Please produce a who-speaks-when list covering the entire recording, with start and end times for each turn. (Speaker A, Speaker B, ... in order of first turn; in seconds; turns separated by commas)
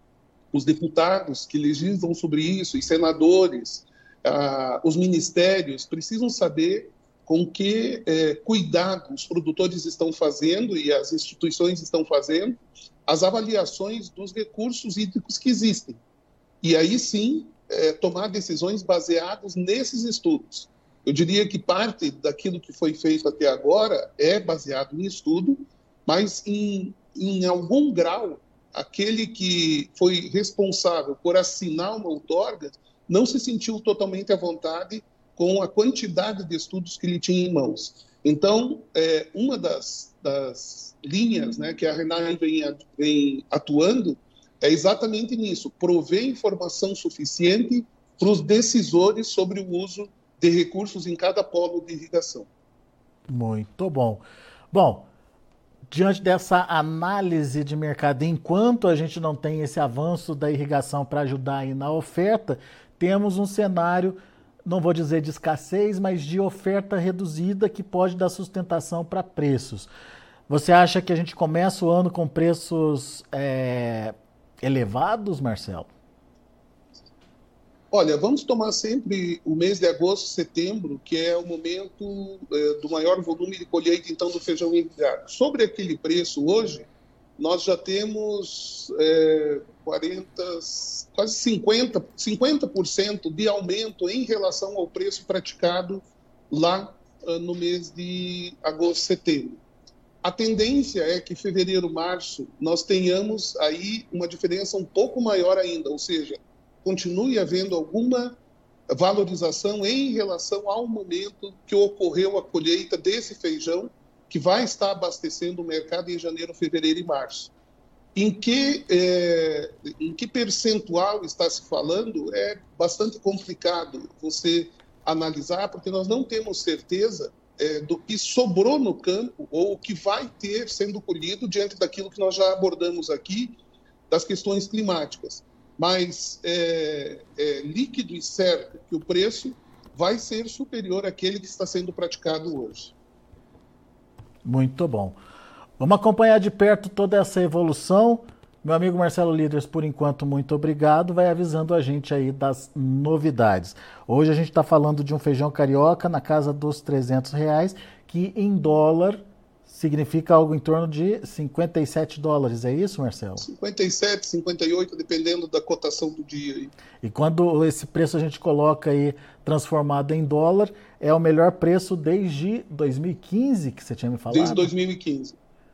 Speaker A: 0.5-16.0, Speaker A: 16.6-52.5, Speaker B: 53.3-55.1, Speaker B: 55.9-69.9, Speaker B: 70.5-75.9, Speaker A: 77.9-99.6, Speaker A: 100.2-117.5, Speaker A: 118.2-133.6, Speaker A: 134.1-142.9, Speaker B: 144.4-145.2, Speaker B: 145.8-163.4, Speaker A: 163.4-166.7, Speaker B: 167.0-174.7, Speaker A: 174.3-175.4